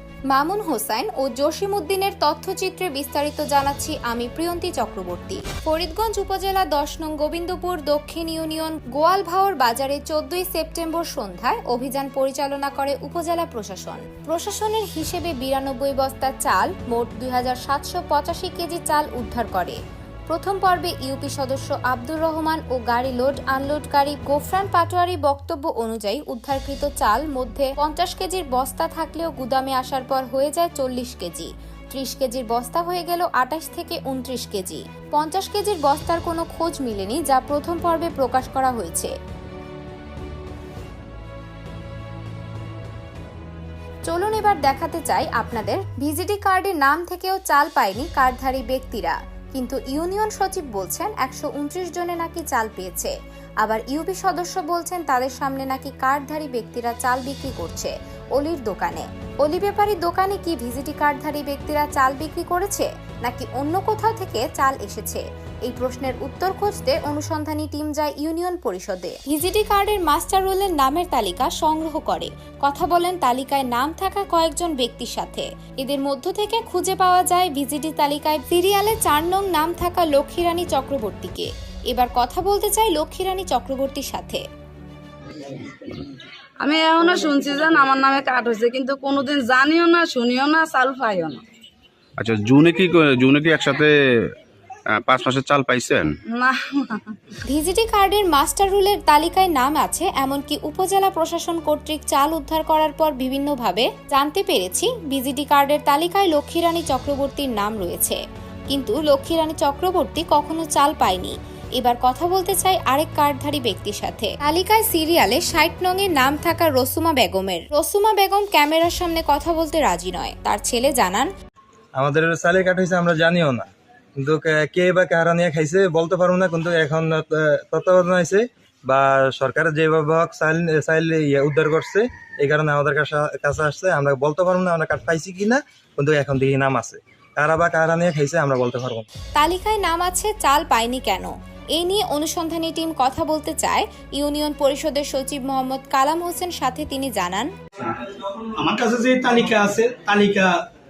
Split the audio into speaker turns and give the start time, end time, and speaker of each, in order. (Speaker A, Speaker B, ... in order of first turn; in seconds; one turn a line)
Speaker A: 0.3-39.1
Speaker A: 44.1-84.4
Speaker B: 85.4-85.9
Speaker B: 86.6-91.4
Speaker C: 92.2-94.3
Speaker C: 94.9-96.1
Speaker B: 96.3-97.4
Speaker A: 97.4-121.3
Speaker D: 122.0-123.7
Speaker D: 124.2-139.1
Speaker A: 139.4-147.5
Speaker E: 147.8-150.6